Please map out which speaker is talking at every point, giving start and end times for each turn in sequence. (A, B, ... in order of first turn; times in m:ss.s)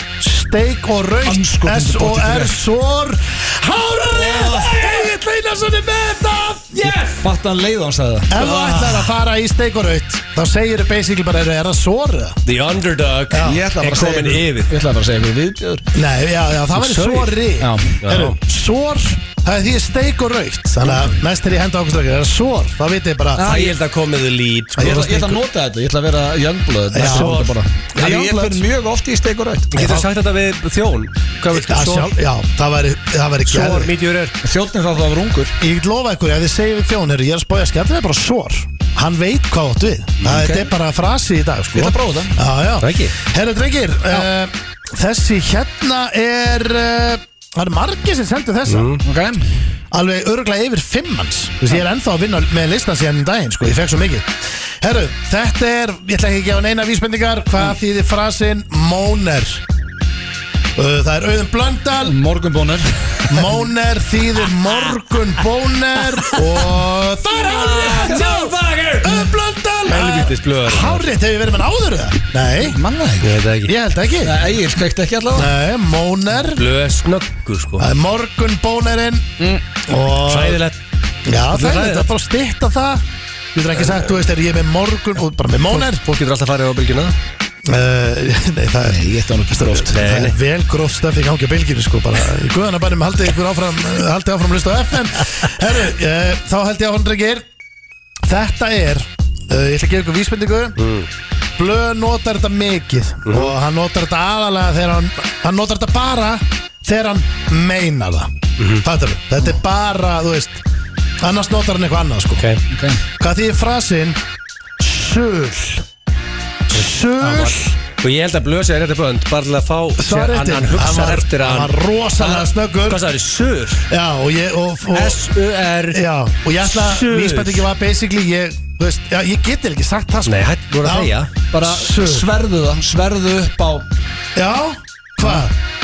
0:00.2-0:06.8 A
0:01.2-0:02.6 B
0:04.1-0:04.8 B
0:06.7-0:07.2 C
0:06.8-0:08.8 B
0:08.3-0:12.4 A
0:08.4-0:08.9 C
0:12.4-0:14.7 C
0:13.3-0:13.6 A
0:13.4-0:15.8 B
0:15.9-0:23.6 A
0:16.7-0:17.4 C
0:17.6-0:18.0 B
0:18.0-0:18.4 C
0:23.4-0:23.7 B
0:23.4-0:25.4 C
0:24.8-0:25.1 A
0:24.8-0:29.7 B
0:26.9-0:28.6 A
0:27.0-0:27.5 C
0:29.7-0:30.1 A
0:29.7-0:32.1 C
0:31.5-0:33.9 A
0:33.5-0:34.4 C
0:34.4-0:35.6 B
0:35.6-0:48.9 A
0:40.2-0:40.7 B
0:41.7-0:42.4 B
0:42.8-0:43.1 C
0:48.7-0:49.0 C
0:49.0-0:49.4 B
0:49.9-0:59.6 A
1:00.8-1:02.2 A
1:02.0-1:03.4 B
1:03.3-1:12.8 A
1:07.3-1:09.3 C
1:09.9-1:11.0 C
1:12.6-1:13.3 B
1:13.2-1:13.7 C
1:13.6-1:14.4 A
1:14.2-1:15.5 B
1:15.3-1:16.6 A
1:16.5-1:17.8 C
1:17.8-1:20.6 A
1:20.2-1:20.8 C
1:21.2-1:23.0 A
1:21.5-1:22.1 C
1:23.5-1:26.0 A
1:23.8-1:24.2 C
1:25.7-1:27.1 C
1:27.6-1:37.4 A
1:28.8-1:29.9 B
1:29.8-1:30.4 C
1:38.2-1:40.8 A
1:40.8-1:41.1 C
1:41.6-1:50.6 A
1:43.2-1:43.5 C
1:48.6-1:48.8 C
1:51.2-1:52.4 A
1:52.7-1:53.0 B
1:53.2-1:54.2 A
1:54.8-1:55.8 A
1:56.7-1:57.7 A
1:56.7-2:03.9 C
2:00.0-2:03.0 A
2:03.9-2:05.3 A
2:04.9-2:06.0 C
2:05.9-2:12.3 A
2:06.6-2:07.7 C
2:10.2-2:11.3 C
2:11.5-2:13.8 B
2:14.3-2:15.5 A